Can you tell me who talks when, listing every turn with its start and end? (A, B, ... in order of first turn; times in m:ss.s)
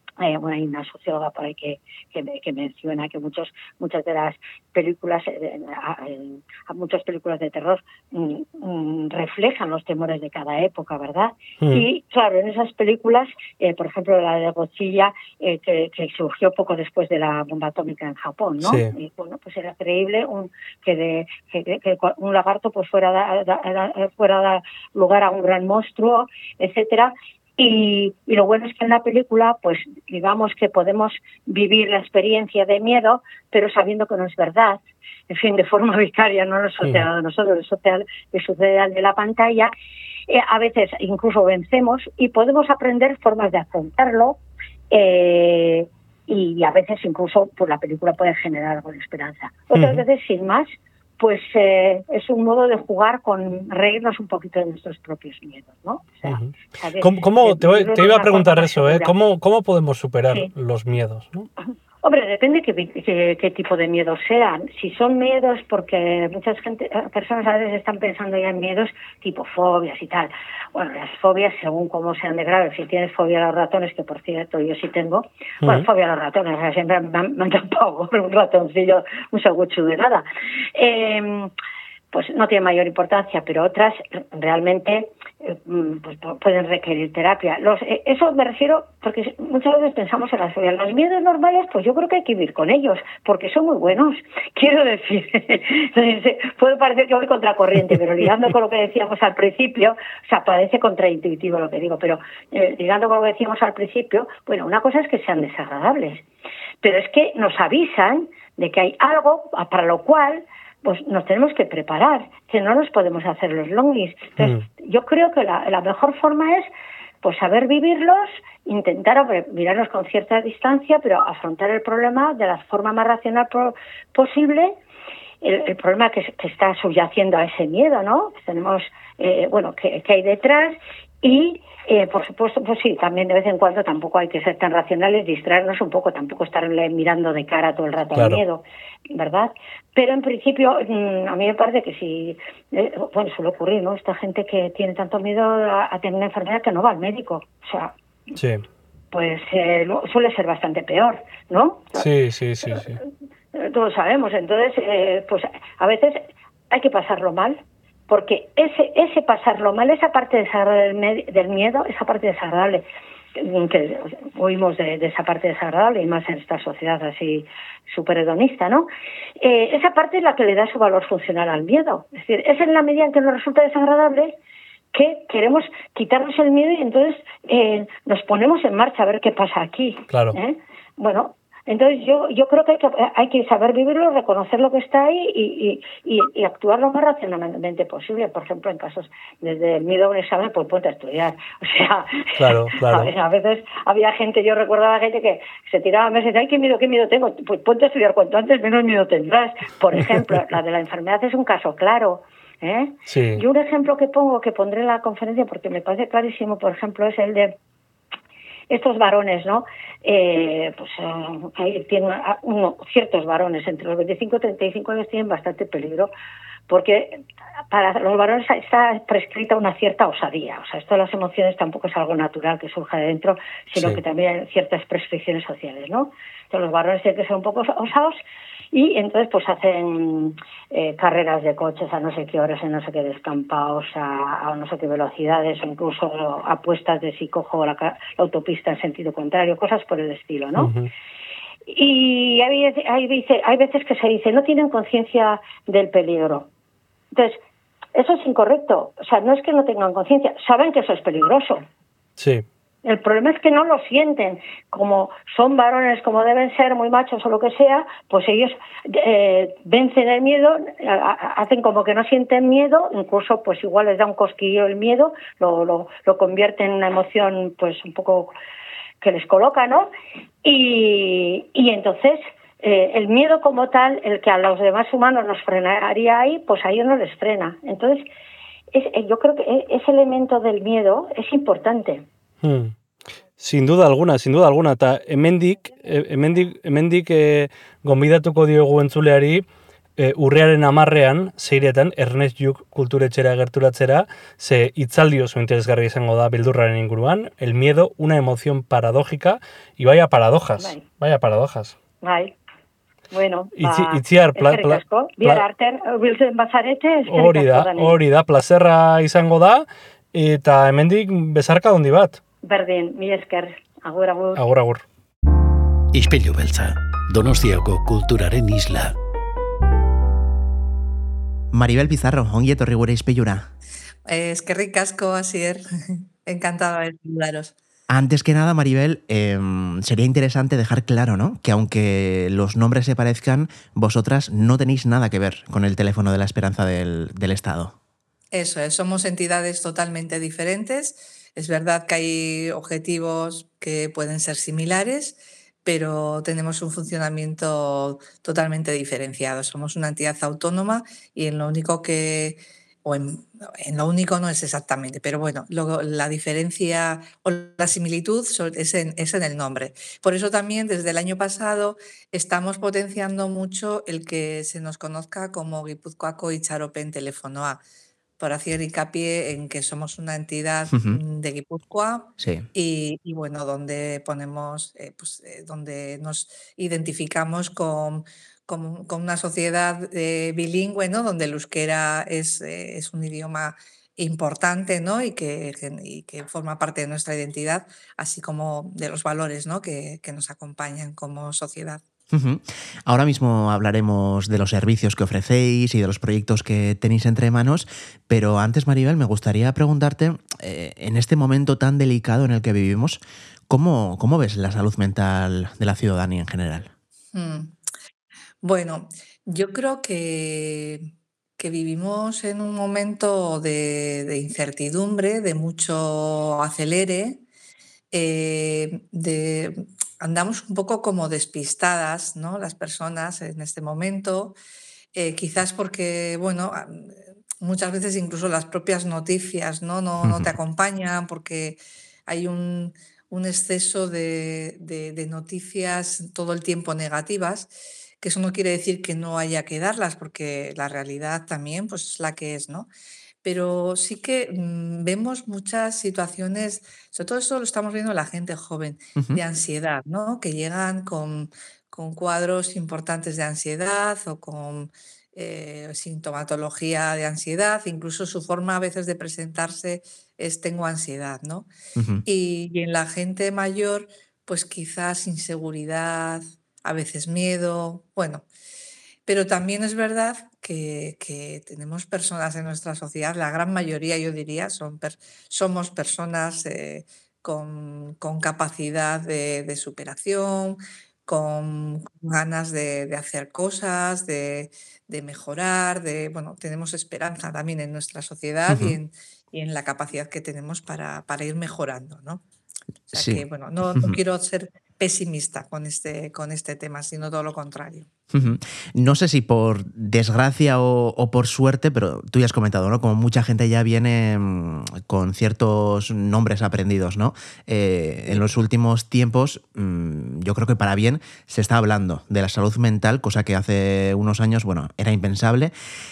0:00.2-0:39.7 A
0:18.6-0:18.9 B
0:40.3-0:44.4 A
0:44.9-0:59.2 A
0:49.7-0:50.0 B
0:56.2-1:01.5 B
1:02.0-1:21.5 A
1:15.6-1:15.9 B
1:22.1-1:46.2 A
1:46.8-1:56.7 A
1:54.4-1:54.6 B
1:57.2-2:04.7 A
2:05.4-2:27.9 A
2:18.1-2:18.4 B
2:28.4-2:28.6 B
2:29.1-2:32.1 A
2:32.0-2:33.0 B
2:33.5-2:54.3 A
2:54.9-3:27.6 A
3:00.1-3:00.4 B
3:12.4-3:13.1 B
3:23.1-3:23.4 B
3:28.7-3:36.1 A
3:36.7-3:48.2 A
3:48.7-4:00.7 A
4:00.6-4:00.9 B
4:01.7-4:06.5 A
4:07.1-4:07.4 A
4:07.9-4:11.6 A
4:12.2-4:12.4 B
4:12.8-4:28.3 A
4:29.0-4:29.9 A
4:30.4-4:38.1 A
4:38.7-4:42.1 A
4:42.4-4:42.7 B
4:43.4-4:49.4 B
4:50.0-5:01.8 B
5:00.6-5:00.8 A
5:02.0-5:02.3 A
5:03.1-5:08.0 A
5:03.6-5:05.4 B
5:07.1-5:12.2 B
5:12.4-5:14.4 A
5:14.4-5:14.8 B
5:15.9-5:18.9 C
5:21.5-5:23.5 D
5:24.1-5:27.5 E
5:27.9-5:37.8 D
5:38.3-6:07.6 E
6:08.2-6:31.8 E
6:10.7-6:11.0 D
6:12.2-6:12.5 D
6:32.1-6:46.7 D
6:47.1-6:47.5 E
6:48.4-6:57.2 E
6:57.9-7:04.4 E
7:05.0-7:22.7 E
7:10.0-7:10.3 D
7:23.2-7:41.5 E
7:41.8-7:42.0 D
7:42.0-7:48.2 E
7:49.0-8:12.2 E
8:08.5-8:08.8 D
8:12.9-8:17.9 E
8:12.9-8:14.0 D
8:18.1-8:35.5 D